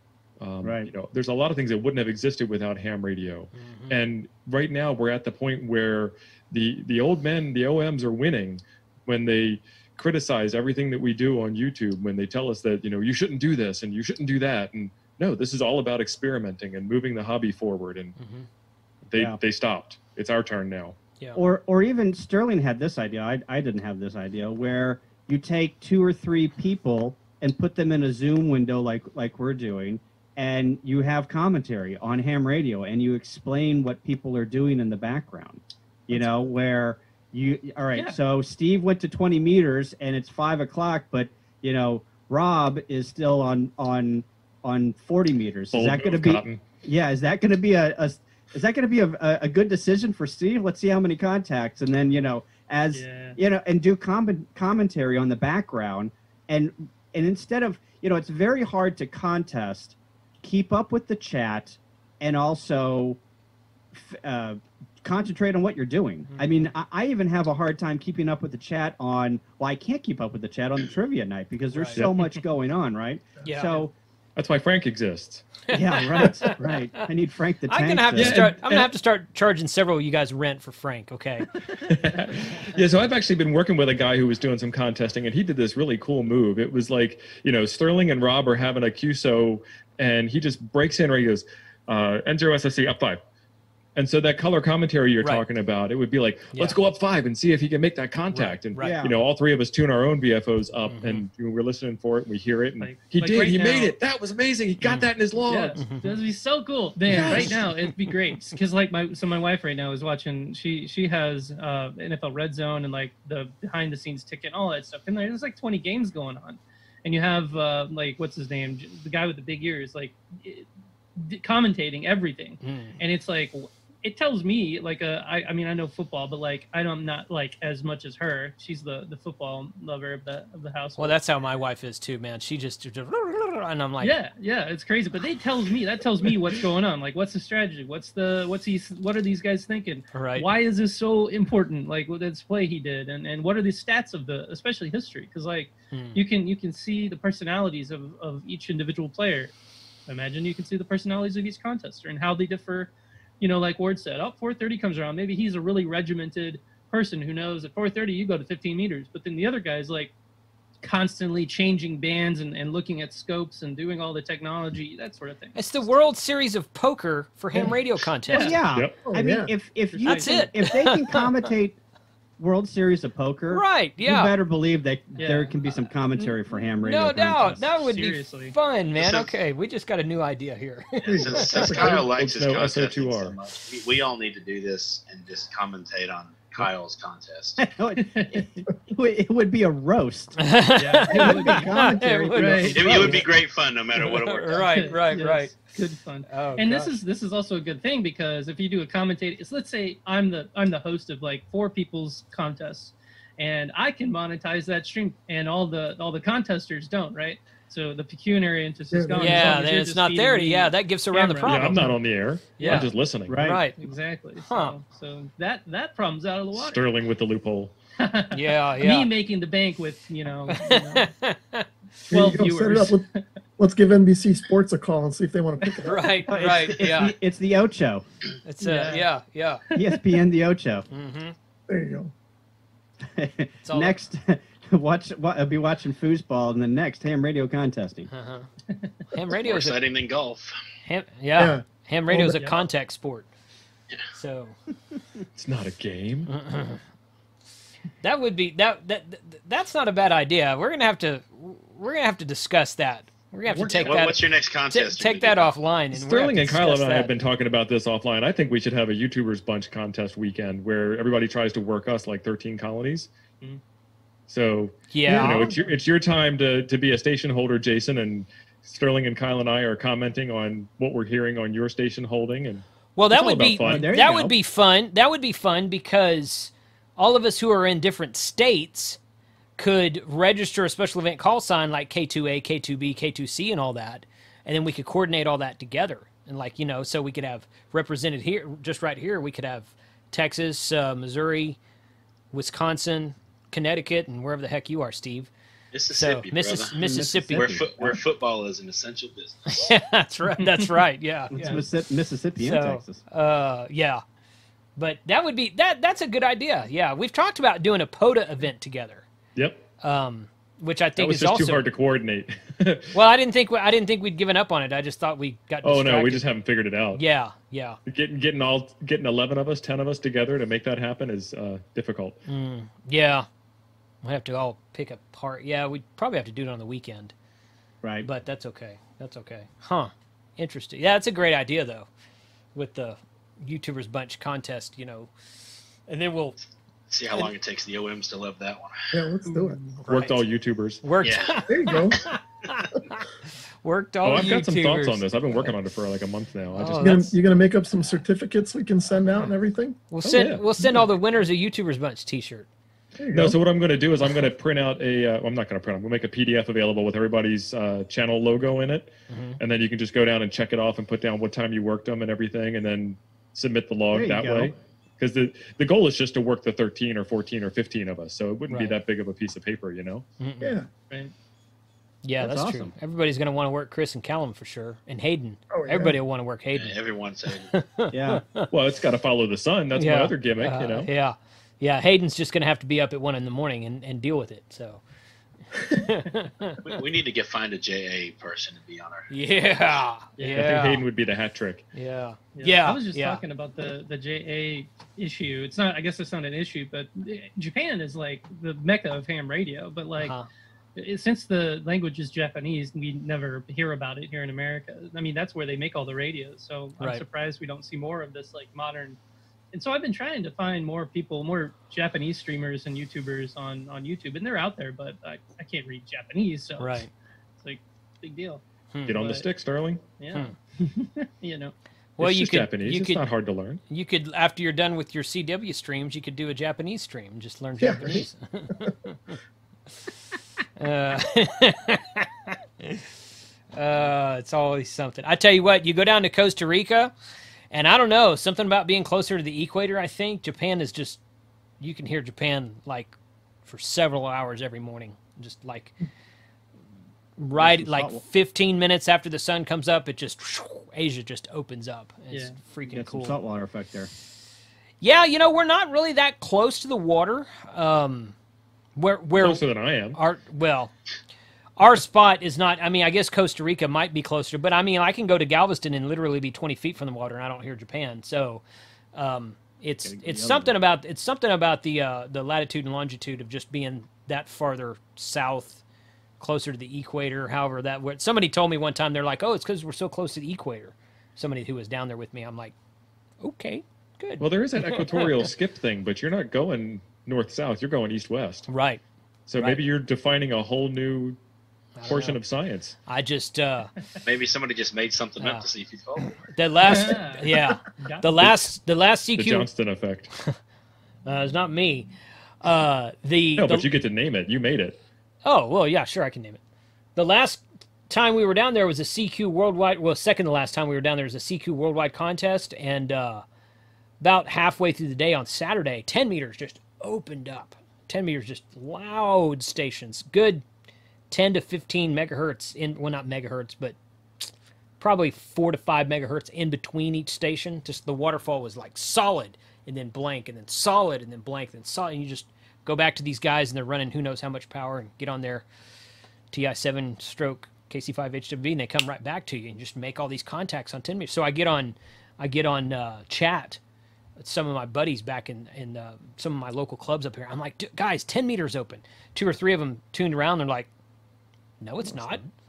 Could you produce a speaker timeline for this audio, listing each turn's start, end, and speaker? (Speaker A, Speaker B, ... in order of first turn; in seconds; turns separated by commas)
Speaker A: 0.4-18.1, Speaker B: 0.6-0.9, Speaker C: 3.5-4.0, Speaker C: 18.2-18.5, Speaker A: 19.1-21.0, Speaker B: 21.3-63.2, Speaker A: 45.7-46.6, Speaker D: 52.9-53.4, Speaker B: 63.9-73.9, Speaker C: 71.7-72.0, Speaker C: 73.4-73.8, Speaker A: 74.3-75.6, Speaker C: 75.7-76.7, Speaker B: 75.7-78.4, Speaker C: 77.7-81.5, Speaker A: 78.1-78.9, Speaker A: 81.8-93.2, Speaker A: 93.9-105.8, Speaker C: 96.5-96.8, Speaker C: 98.3-99.0, Speaker B: 98.8-99.2, Speaker C: 100.8-101.2, Speaker D: 102.8-103.9, Speaker C: 104.8-105.1, Speaker D: 105.5-131.2, Speaker C: 105.8-106.1, Speaker C: 107.1-108.1, Speaker C: 122.6-123.0, Speaker C: 131.0-134.1, Speaker D: 134.0-149.5, Speaker C: 140.1-140.5, Speaker C: 145.9-146.2, Speaker D: 150.1-160.1, Speaker D: 160.8-165.9, Speaker C: 165.5-168.6, Speaker D: 168.3-168.6, Speaker B: 168.3-171.8, Speaker A: 168.7-169.0, Speaker E: 169.0-169.5, Speaker D: 169.9-170.4, Speaker C: 170.0-171.5, Speaker B: 172.4-177.6, Speaker C: 173.5-174.3, Speaker D: 175.2-175.5, Speaker C: 176.8-181.7, Speaker D: 177.6-178.5, Speaker F: 178.9-179.3, Speaker F: 181.0-187.7, Speaker E: 181.1-181.9, Speaker A: 181.6-183.4, Speaker B: 187.6-193.3, Speaker D: 188.0-188.6, Speaker C: 190.4-193.3, Speaker D: 191.0-191.8, Speaker D: 192.3-192.9, Speaker F: 192.7-195.0, Speaker C: 193.9-195.7, Speaker D: 194.7-211.8, Speaker C: 196.3-197.0, Speaker E: 208.9-209.6, Speaker C: 209.2-211.9, Speaker A: 211.4-213.4, Speaker C: 212.6-213.8, Speaker D: 212.6-212.9, Speaker B: 213.3-213.6, Speaker D: 213.8-216.8, Speaker C: 214.4-214.8, Speaker A: 216.5-217.7, Speaker D: 218.0-221.1, Speaker C: 218.3-219.1, Speaker C: 220.5-221.7, Speaker E: 222.1-223.0, Speaker D: 222.1-223.2, Speaker E: 223.6-226.1, Speaker C: 225.8-227.1, Speaker B: 226.3-228.0, Speaker C: 228.4-229.6, Speaker D: 228.6-229.1, Speaker D: 229.7-230.0, Speaker B: 229.7-230.9, Speaker C: 230.9-231.3, Speaker E: 231.7-232.1, Speaker B: 233.0-238.1, Speaker C: 233.6-233.9, Speaker C: 238.1-238.5, Speaker C: 239.1-239.8, Speaker F: 239.3-240.6, Speaker C: 240.8-243.3, Speaker E: 241.4-242.4, Speaker C: 244.1-244.6, Speaker A: 245.3-246.3, Speaker C: 246.3-246.8, Speaker C: 248.0-257.1, Speaker F: 253.6-255.6, Speaker A: 255.9-263.1, Speaker A: 264.3-274.0, Speaker C: 264.9-265.5, Speaker E: 265.1-265.6, Speaker C: 272.9-279.0, Speaker B: 273.6-274.4, Speaker C: 279.6-291.6, Speaker C: 292.3-295.3, Speaker F: 295.7-296.8, Speaker C: 295.9-297.6, Speaker B: 296.8-298.0, Speaker F: 297.3-299.7, Speaker C: 299.5-301.6, Speaker B: 301.3-303.0, Speaker C: 302.4-304.0, Speaker C: 304.8-309.1, Speaker A: 309.4-309.6, Speaker C: 309.8-311.6, Speaker A: 311.0-312.9, Speaker C: 312.9-316.2, Speaker A: 315.6-317.0, Speaker C: 316.9-317.8, Speaker A: 317.9-322.2, Speaker C: 322.3-323.3, Speaker C: 324.0-327.1, Speaker B: 327.8-328.1, Speaker C: 328.0-331.9, Speaker C: 332.5-335.1, Speaker C: 335.9-336.4, Speaker F: 336.9-339.0, Speaker E: 338.9-339.8, Speaker D: 339.2-339.8, Speaker A: 339.9-340.9, Speaker C: 339.9-340.2, Speaker C: 340.8-345.5, Speaker F: 341.0-342.0, Speaker E: 341.5-342.0, Speaker A: 344.0-347.0, Speaker C: 346.5-347.1, Speaker E: 346.8-349.8, Speaker C: 349.9-352.5, Speaker A: 350.0-350.5, Speaker E: 353.0-353.4, Speaker A: 353.1-370.0, Speaker C: 359.1-359.4, Speaker B: 363.9-364.5, Speaker C: 368.5-368.8, Speaker C: 370.2-370.5, Speaker E: 370.4-370.7, Speaker C: 372.0-378.5, Speaker B: 372.2-372.7, Speaker E: 375.5-376.0, Speaker F: 376.5-377.5, Speaker B: 377.9-378.2, Speaker A: 378.5-380.9, Speaker C: 379.8-384.8, Speaker C: 385.7-386.6, Speaker F: 386.6-389.1, Speaker C: 389.1-390.9, Speaker D: 390.2-390.4, Speaker A: 390.3-391.6, Speaker C: 391.7-393.2, Speaker D: 392.3-400.1, Speaker C: 400.0-400.3, Speaker D: 400.7-409.0, Speaker D: 409.5-416.8, Speaker C: 416.6-416.9, Speaker D: 417.4-418.4, Speaker C: 418.7-419.0, Speaker A: 418.9-419.8, Speaker D: 418.9-419.2, Speaker D: 420.0-421.5, Speaker C: 422.0-423.1, Speaker A: 422.0-423.6, Speaker C: 423.7-429.1, Speaker E: 427.6-428.7, Speaker C: 430.6-432.9, Speaker C: 433.5-436.9, Speaker C: 437.5-441.0, Speaker C: 441.6-442.9, Speaker C: 443.4-445.7, Speaker C: 447.2-453.2, Speaker B: 447.4-448.0, Speaker D: 452.1-452.4, Speaker B: 452.7-453.9, Speaker C: 454.8-458.1, Speaker C: 458.8-460.7, Speaker A: 459.2-460.0, Speaker C: 461.6-468.4, Speaker C: 468.9-475.6, Speaker B: 469.8-470.5, Speaker C: 476.2-482.5, Speaker C: 483.2-485.2, Speaker A: 484.2-488.5, Speaker C: 488.5-488.8, Speaker A: 489.3-491.2, Speaker C: 491.8-492.2, Speaker A: 491.9-492.8, Speaker C: 492.9-493.7, Speaker F: 494.0-496.1, Speaker C: 495.2-495.4, Speaker C: 496.0-499.5, Speaker D: 496.6-498.1, Speaker A: 499.1-500.1, Speaker C: 501.0-501.9, Speaker C: 502.4-503.7, Speaker A: 503.4-504.8, Speaker C: 505.2-506.4, Speaker C: 506.9-513.2, Speaker C: 514.0-520.4, Speaker C: 521.1-535.5, Speaker C: 536.3-543.6, Speaker C: 544.2-550.7, Speaker C: 551.6-552.2, Speaker B: 551.9-552.2